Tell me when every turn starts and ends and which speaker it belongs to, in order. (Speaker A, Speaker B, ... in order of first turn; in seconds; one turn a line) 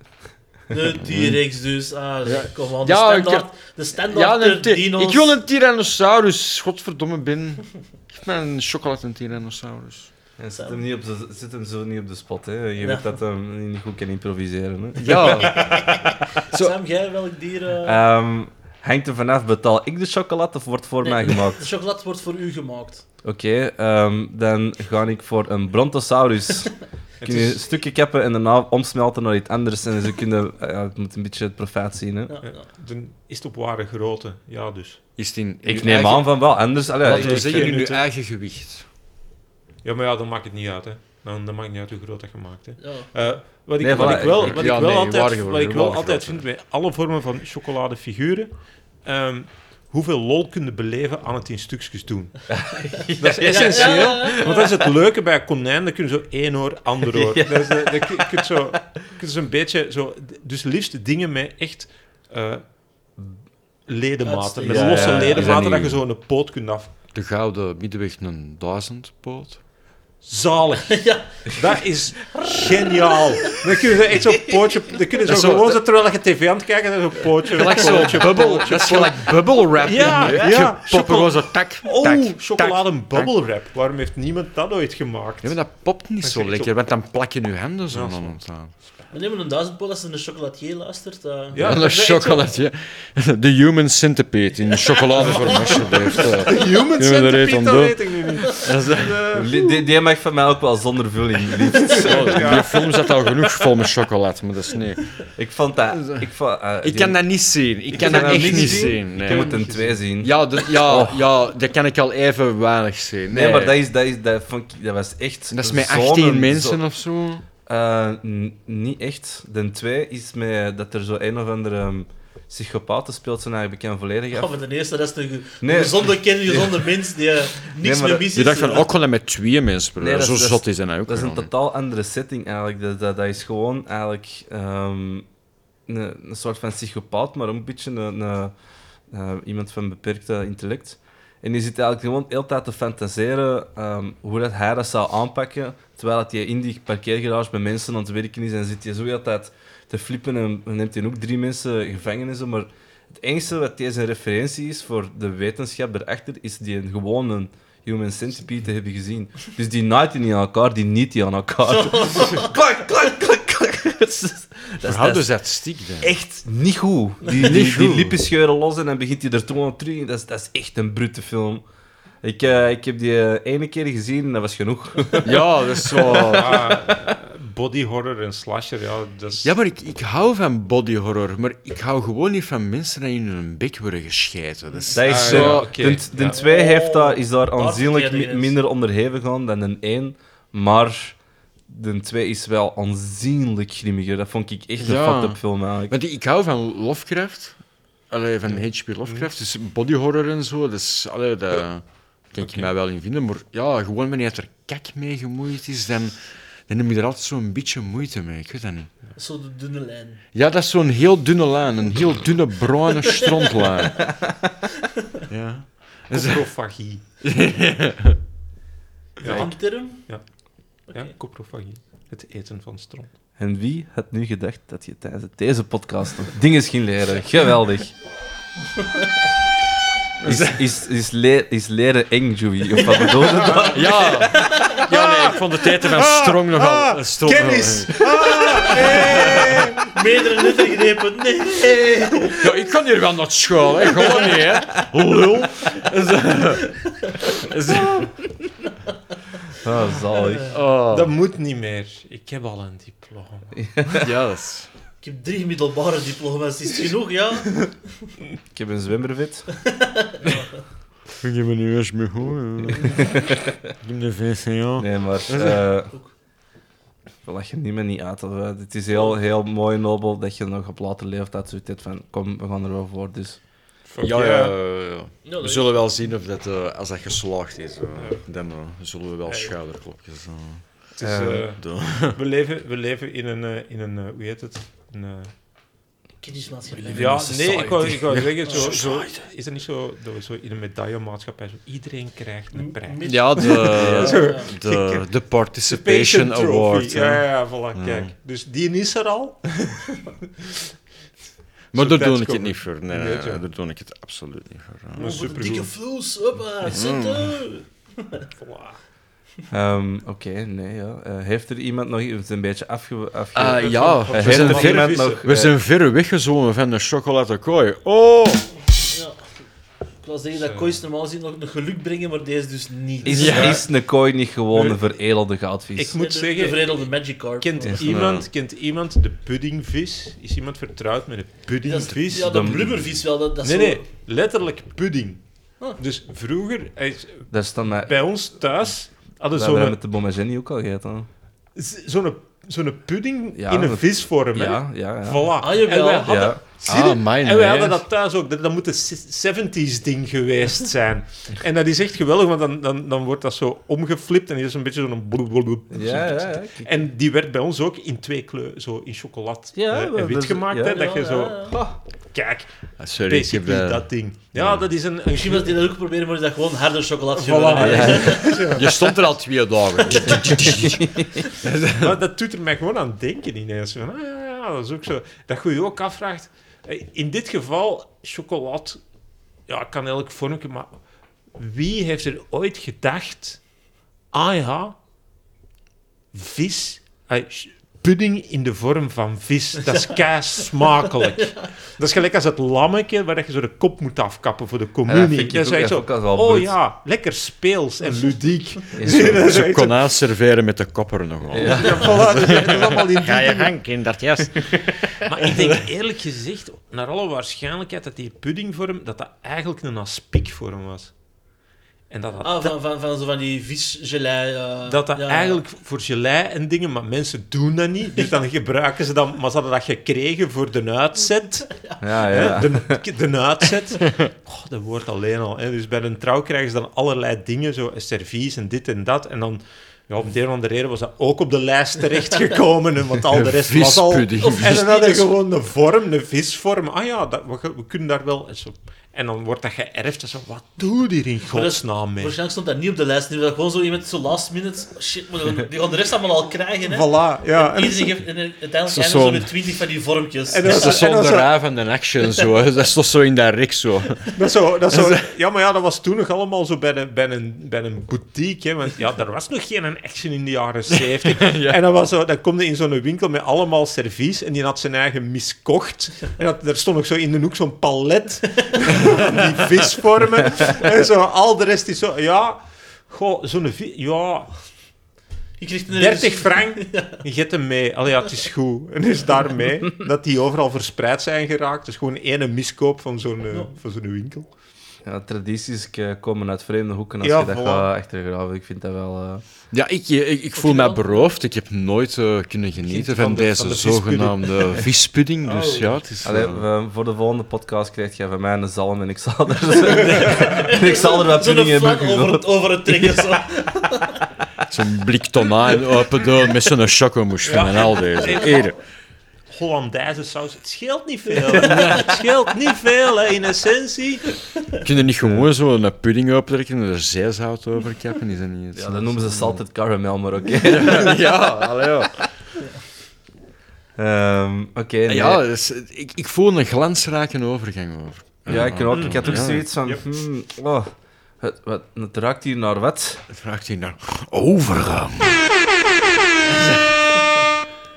Speaker A: 0.7-5.3
Speaker B: 1.0-1.5
Speaker B: 2.2-10.1
Speaker C: 10.4-15.7
Speaker A: 12.8-13.1
Speaker B: 15.0-16.8
Speaker A: 15.6-18.0
Speaker C: 17.8-21.7
Speaker A: 21.0-23.1
Speaker C: 23.2-32.4
Speaker D: 27.2-27.6
Speaker A: 32.3-32.7
Speaker D: 32.4-35.0
Speaker B: 35.2-38.9
Speaker C: 35.7-37.7
Speaker D: 37.0-38.0
Speaker D: 39.8-52.4
Speaker A: 42.8-43.1
Speaker C: 43.8-46.0
Speaker B: 43.9-46.4
Speaker C: 52.5-54.6
Speaker D: 53.2-62.7
Speaker A: 53.5-54.7
Speaker C: 57.1-58.5
Speaker D: 63.9-66.9
Speaker A: 64.2-65.6
Speaker C: 64.7-65.9
Speaker B: 65.5-66.0
Speaker B: 67.1-69.6
Speaker D: 70.2-85.6
Speaker A: 70.9-71.6
Speaker A: 72.3-73.6
Speaker B: 75.2-75.8
Speaker B: 77.5-83.3
Speaker B: 85.4-88.7
Speaker D: 86.2-86.7
Speaker D: 87.9-88.4
Speaker A: 89.1-92.5
Speaker D: 91.5-92.2
Speaker B: 91.6-99.2
Speaker D: 95.2-99.7
Speaker C: 99.3-102.5
Speaker D: 101.9-102.9
Speaker B: 102.0-105.2
Speaker C: 105.4-107.3
Speaker B: 105.9-109.5
Speaker D: 107.9-110.0
Speaker C: 107.9-111.3
Speaker B: 110.2-113.8
Speaker C: 113.3-116.8
Speaker B: 115.5-117.4
Speaker C: 117.7-124.5
Speaker A: 124.3-128.9
Speaker C: 125.6-127.0
Speaker C: 127.6-128.3
Speaker B: 128.3-131.5
Speaker C: 130.0-135.3
Speaker C: 135.9-138.5
Speaker C: 139.1-165.3
Speaker A: 161.7-162.5
Speaker B: 164.8-166.1
Speaker C: 166.0-171.6
Speaker B: 167.3-168.2
Speaker C: 172.2-175.4
Speaker B: 175.2-176.7
Speaker D: 176.1-179.5
Speaker C: 176.5-177.1
Speaker B: 179.4-185.9
Speaker C: 184.9-195.9
Speaker D: 185.1-186.4
Speaker A: 186.2-188.5
Speaker B: 194.8-208.9
Speaker D: 198.5-199.3
Speaker D: 202.4-202.7
Speaker A: 209.2-210.2
Speaker B: 210.3-214.2
Speaker B: 215.3-216.4
Speaker D: 216.1-217.0
Speaker B: 217.2-218.2
Speaker D: 219.2-223.1
Speaker A: 219.2-220.1
Speaker A: 220.9-221.1
Speaker C: 223.4-227.9
Speaker B: 230.2-230.6
Speaker C: 230.2-233.8
Speaker A: 232.8-233.8
Speaker D: 233.5-239.8
Speaker B: 233.7-239.7
Speaker A: 234.4-234.8
Speaker A: 238.4-242.4
Speaker B: 242.3-248.1
Speaker C: 249.6-250.5
Speaker A: 250.2-250.5
Speaker B: 250.5-251.1
Speaker D: 250.9-253.6
Speaker C: 253.6-254.1
Speaker B: 254.0-254.7
Speaker A: 255.0-257.8
Speaker C: 258.5-259.5
Speaker A: 259.7-260.5
Speaker B: 261.2-263.2
Speaker B: 263.7-265.6
Speaker C: 264.8-265.9
Speaker C: 267.2-273.4
Speaker D: 273.9-274.6
Speaker B: 274.0-280.9
Speaker A: 275.2-275.7
Speaker D: 278.0-278.2
Speaker D: 281.0-285.3
Speaker C: 281.0-281.4
Speaker B: 281.6-282.2
Speaker A: 286.2-287.7
Speaker D: 286.8-295.1
Speaker C: 286.9-288.0
Speaker B: 288.1-289.2
Speaker A: 288.4-288.8
Speaker A: 292.5-294.5
Speaker B: 293.0-298.1
Speaker D: 295.6-299.9
Speaker D: 301.7-303.4
Speaker B: 301.7-305.0
Speaker D: 304.9-305.7
Speaker A: 305.0-308.2
Speaker B: 306.7-307.5
Speaker D: 308.4-308.8
Speaker C: 309.5-315.5
Speaker B: 313.4-318.5
Speaker D: 313.5-315.2
Speaker A: 318.8-319.2
Speaker A: 320.0-323.6
Speaker D: 320.4-320.8
Speaker C: 323.0-325.9
Speaker B: 323.1-323.6
Speaker D: 325.8-332.5
Speaker A: 325.9-327.8
Speaker C: 327.6-328.2
Speaker B: 327.9-328.2
Speaker A: 331.6-333.8
Speaker C: 332.2-332.9
Speaker D: 333.4-339.8
Speaker C: 337.3-337.9
Speaker C: 339.3-341.1
Speaker D: 341.6-361.6
Speaker C: 343.4-345.4
Speaker A: 345.4-346.3
Speaker C: 346.0-346.4
Speaker B: 346.7-347.8
Speaker C: 355.7-356.8
Speaker C: 359.6-360.9
Speaker A: 360.7-361.6
Speaker C: 361.5-361.8
Speaker D: 362.1-362.5
Speaker B: 362.8-364.7
Speaker D: 363.0-365.7
Speaker A: 365.1-368.6
Speaker D: 367.1-368.8
Speaker C: 367.6-368.2
Speaker B: 368.0-372.0
Speaker A: 369.9-370.3
Speaker C: 370.5-371.2
Speaker D: 371.8-378.8
Speaker D: 379.5-380.7
Speaker D: 381.4-383.4
Speaker D: 384.1-384.8
Speaker D: 386.1-399.9
Speaker C: 394.9-396.6
Speaker C: 398.8-399.2
Speaker B: 398.9-405.6
Speaker C: 401.3-401.8
Speaker D: 401.4-403.6
Speaker D: 405.0-410.9
Speaker D: 411.9-412.6
Speaker A: 412.2-415.4
Speaker D: 414.7-442.2
Speaker A: 421.7-422.3
Speaker C: 421.8-422.8
Speaker B: 433.1-434.7
Speaker A: 434.2-435.1
Speaker A: 441.3-450.8
Speaker D: 446.6-448.0
Speaker B: 448.7-449.4
Speaker D: 450.3-451.3
Speaker B: 450.5-454.1
Speaker D: 454.1-474.3
Speaker B: 454.7-455.0
Speaker B: 461.0-461.6
Speaker A: 475.4-477.0
Speaker D: 475.7-484.3
Speaker C: 484.9-489.2
Speaker D: 487.0-487.7
Speaker B: 489.5-496.4
Speaker A: 490.4-491.1
Speaker D: 492.6-494.6
Speaker A: 495.3-495.7
Speaker C: 496.0-503.1
Speaker A: 499.8-504.0
Speaker B: 504.5-508.6
Speaker D: 507.2-508.6
Speaker D: 509.3-514.1
Speaker A: 511.3-511.8
Speaker B: 511.4-511.9
Speaker B: 514.6-519.4
Speaker C: 518.5-521.1
Speaker B: 520.4-522.1
Speaker C: 523.8-525.2
Speaker B: 524.9-529.5
Speaker C: 528.3-530.7
Speaker D: 528.7-529.8
Speaker C: 531.2-533.0
Speaker B: 533.1-535.3
Speaker B: 536.3-536.7